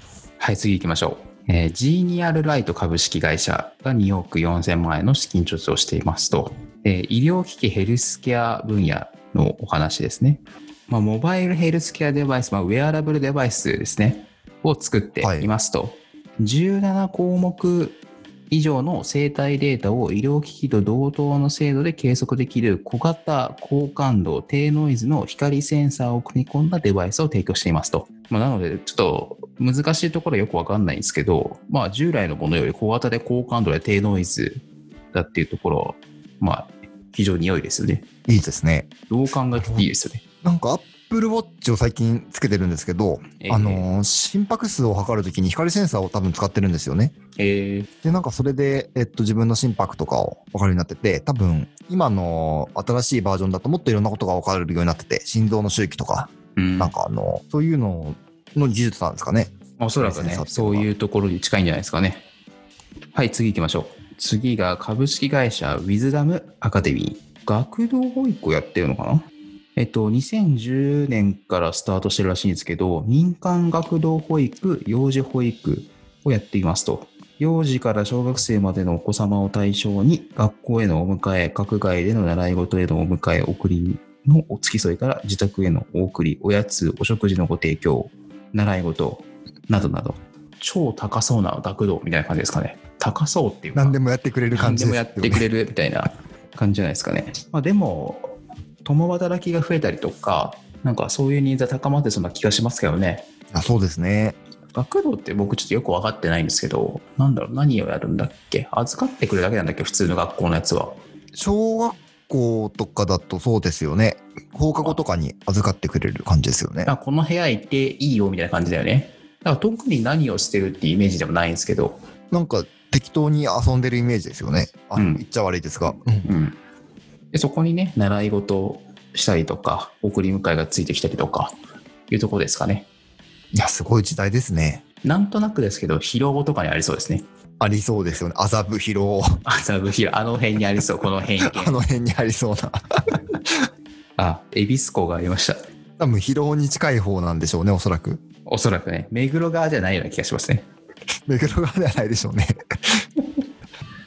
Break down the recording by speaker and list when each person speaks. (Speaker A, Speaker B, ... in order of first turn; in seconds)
Speaker A: 0.4-38.1, 39.1-40.2, 43.4-43.9, 47.4-47.9, 56.6-56.9, 59.8-62.2, 63.1-94.0, 94.5-103.2, 104.7-111.0, 116.8-122.0, 124.9-125.2, 126.2-126.6, 127.3-131.5, 132.1-132.9, 135.0-137.2, 139.4-141.8, 144.2-145.6, 148.5-150.7
Speaker B: 15.2-15.5, 38.3-38.9, 39.5-39.9, 40.4-47.1, 48.0-60.9, 93.7-95.4, 103.5-104.3, 111.3-116.9, 122.3-126.3, 133.5-134.8, 137.6-139.4, 141.4-143.2, 146.0-148.2, 151.3-153.0